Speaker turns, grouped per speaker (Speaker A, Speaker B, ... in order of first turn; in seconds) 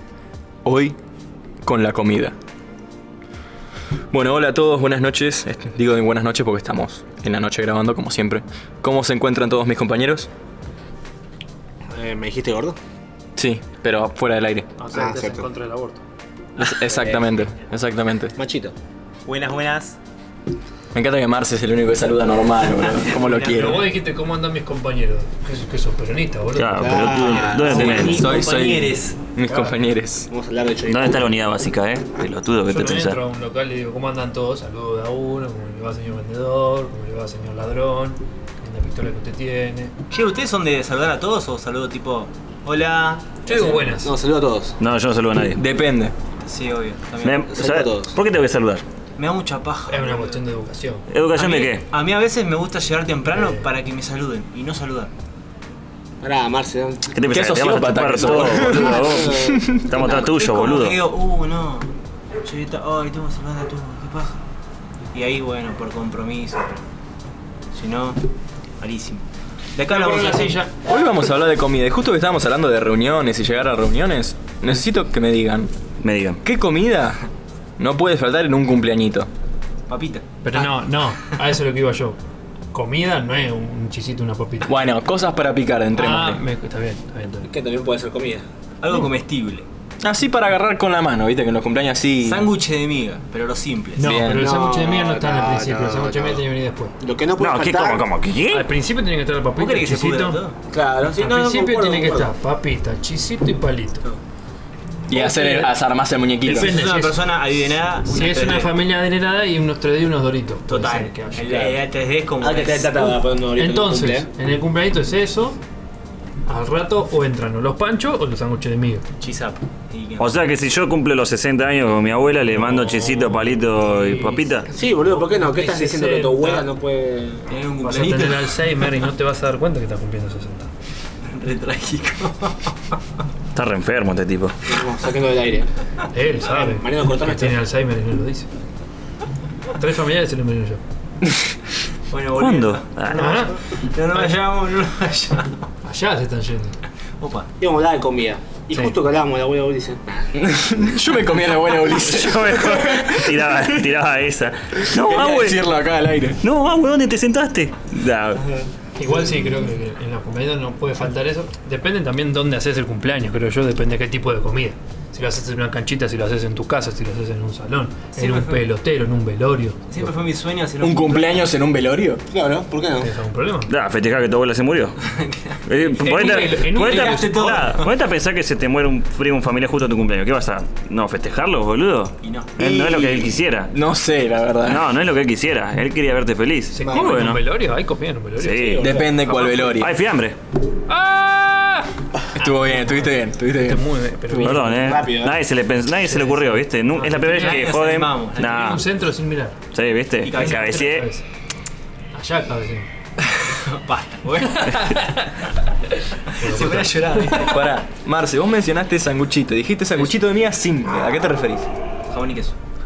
Speaker A: 0.6-1.0, 1.6-2.3, 4.1-10.3, 13.3-14.7, 16.6-18.3, 20.9-23.8, 27.7-30.3, 45.5-46.1, 57.3-59.8, 70.8-75.7, 76.4-77.2, 77.8-79.3, 84.7-86.4, 90.0-92.5, 94.0-94.5, 105.1-106.8, 150.3-153.9, 154.9-156.4, 170.8-172.2, 182.6-183.2, 183.7-184.9, 188.8-189.9, 192.3-194.5, 207.3-211.7
Speaker B: 11.9-12.8, 14.9-15.4, 18.4-18.7, 26.8-28.2, 30.3-31.3, 44.0-44.8, 47.5-48.1, 56.2-57.1, 58.2-60.3, 87.4-88.4, 94.2-96.4, 97.0-98.0, 100.7-102.3, 112.4-114.3, 124.7-127.5, 134.7-135.7, 136.4-137.6, 147.6-150.3, 172.3-173.1, 186.8-187.3, 188.6-189.3, 194.8-195.3
Speaker C: 14.8-16.0, 23.5-27.5, 32.7-39.9, 43.4-44.1, 49.9-51.0, 53.3-53.7, 69.8-70.7, 80.4-82.2, 82.7-84.8, 85.9-87.5, 94.0-97.0, 98.5-100.4, 101.2-104.0, 105.1-105.7, 106.4-107.2, 108.0-111.8, 113.5-115.6, 116.5-119.0, 122.5-126.7, 127.8-130.7, 136.1-138.5, 139.7-140.8, 143.1-143.6, 145.8-146.8, 148.7-149.0, 159.0-170.2, 173.0-173.7, 176.0-177.8, 186.7-189.7, 190.9-191.9, 192.5-195.1, 196.0-197.7, 198.4-199.6, 200.3-201.2, 202.1-202.9, 204.4-207.5
Speaker D: 16.6-17.3, 19.2-20.0, 22.8-23.9, 27.6-29.2, 40.1-43.9, 46.4-47.5, 49.2-50.4, 51.4-55.1, 60.2-61.9, 62.4-64.4, 65.1-66.8, 67.7-68.2, 68.8-69.2, 69.8-70.6, 79.9-80.2, 88.8-89.7, 92.2-94.2, 99.5-100.6, 106.5-108.7, 110.7-113.1, 119.2-120.3, 127.5-128.9, 131.2-133.0, 142.1-145.6, 147.2-147.5, 168.1-168.6, 169.9-171.4, 175.0-177.9, 182.2-182.6, 197.0-198.8, 200.2-200.9, 203.4-205.1, 206.3-207.6, 212.1-212.6
Speaker E: 26.5-28.2, 30.9-33.2, 44.8-45.6, 47.2-48.8, 51.1-51.9, 57.1-61.0, 76.0-76.4, 97.4-98.7, 120.2-124.7, 133.5-134.6, 142.3-143.4, 151.8-155.6, 156.4-158.4, 173.7-175.0, 175.7-183.7, 184.6-187.4, 188.4-190.3, 194.4-198.8, 199.7-201.1